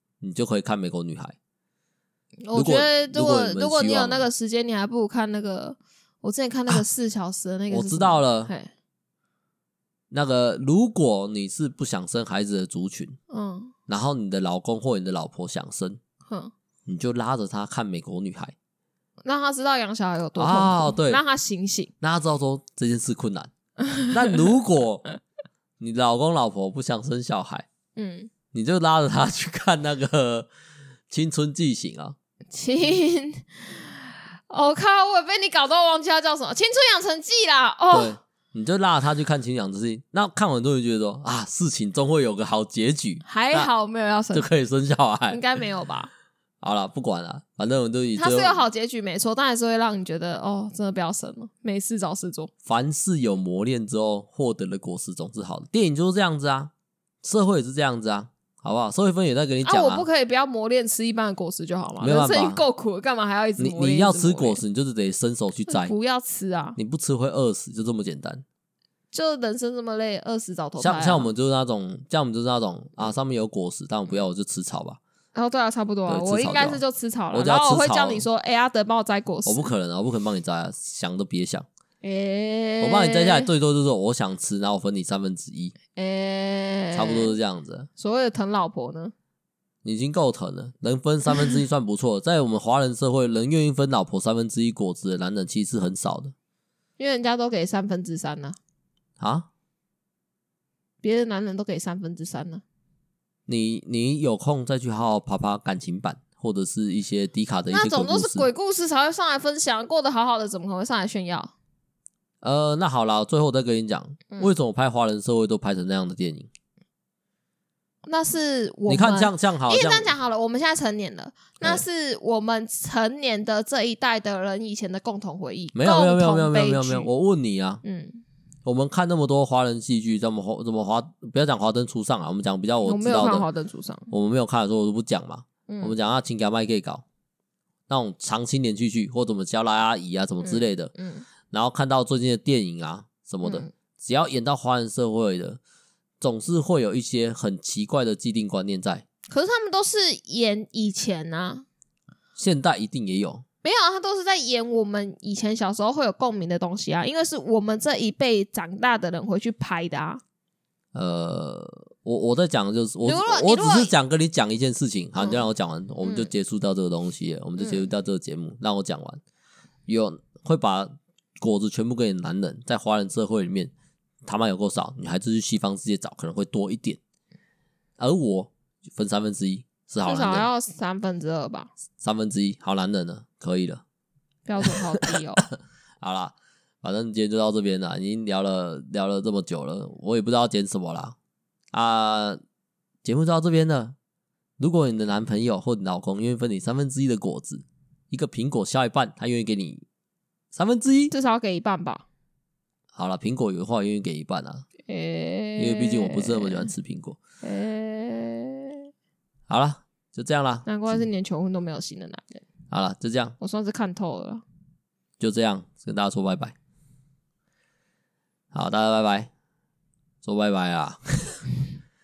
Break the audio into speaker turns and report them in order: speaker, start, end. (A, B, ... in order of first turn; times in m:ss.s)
0:00.2-0:01.4 A
0:02.5-0:08.7 B
0:02.5-0:04.3 A
0:07.7-0:08.5 A
0:10.1-0:13.2 A
0:13.3-0:13.7 B
0:13.9-0:16.0 A
0:16.3-0:16.5 B
0:16.9-0:18.6 A
0:19.2-0:21.9 B
0:20.4-0:21.2 A
0:22.0-0:23.5 A
0:24.1-0:25.0 A
0:25.8-0:27.7 A
0:28.0-0:28.3 B
0:28.5-0:30.5 A
0:31.1-0:32.2 A
0:32.5-0:38.2 B
0:37.9-0:43.7 A
0:43.2-0:44.5 B
0:44.3-0:45.4 A
0:45.3-0:46.1 B
0:46.6-0:48.6 A
0:48.2-0:52.5 B
0:52.6-0:56.7 A
0:57.2-1:00.1 A
0:59.6-1:04.6 B
1:02.0-1:02.6 A
1:03.6-1:05.9 A
1:05.7-1:06.8 B
1:06.8-1:08.4 A
1:09.1-1:11.3 B
1:10.8-1:15.0 A
1:15.3-1:19.7 B
1:16.1-1:18.3 A
1:19.4-1:21.6 A
1:22.0-1:23.5 B
1:22.8-1:25.7 A
1:25.9-1:27.4 B
1:26.9-1:27.9 A
1:28.0-1:29.1 B
1:29.8-1:36.3 A
1:37.0-1:38.6 B
1:39.2-1:39.5 A
1:41.0-1:42.6 B
1:43.5-1:48.5 A
1:47.7-1:51.5 B
1:52.4-1:56.5 A
1:58.0-2:07.1 B
1:58.9-2:00.1 A
2:05.7-2:07.8 A
2:07.8-2:08.2 B
2:08.6-2:13.4 A
2:12.8-2:14.1 B
2:14.1-2:17.0 A
2:15.7-2:16.0 B
2:17.9-2:20.9 A
2:20.4-2:21.3 B
2:21.5-2:25.6 A
2:23.4-2:23.7 B
2:26.2-2:29.0 A
2:29.3-2:31.6 B
2:32.4-2:33.4 A
2:33.6-2:40.2 B
2:40.9-2:49.2 A
2:43.0-2:43.9 B
2:45.2-2:45.4 B
2:46.0-2:46.3 B
2:47.6-2:47.9 B
2:49.9-2:53.7 A
2:54.2-2:57.0 A
2:58.0-3:00.5 A
3:00.0-3:01.7 B
3:02.0-3:03.8 A
3:04.4-3:05.4 B
3:06.0-3:11.2 A
3:11.7-3:12.4 A
3:13.0-3:14.0 A
3:14.6-3:19.8 A
3:20.5-3:21.1 A
3:21.1-3:22.0 B
3:22.9-3:24.6 A
3:24.9-3:26.7 B
3:25.6-3:27.2 A
3:27.4-3:28.8 B
3:29.5-3:30.6 A
3:30.6-3:32.4 B
3:32.7-3:33.4 A
3:33.4-3:34.4 B
3:35.2-3:36.6 A
3:38.5-3:39.3 A
3:40.2-3:41.5 A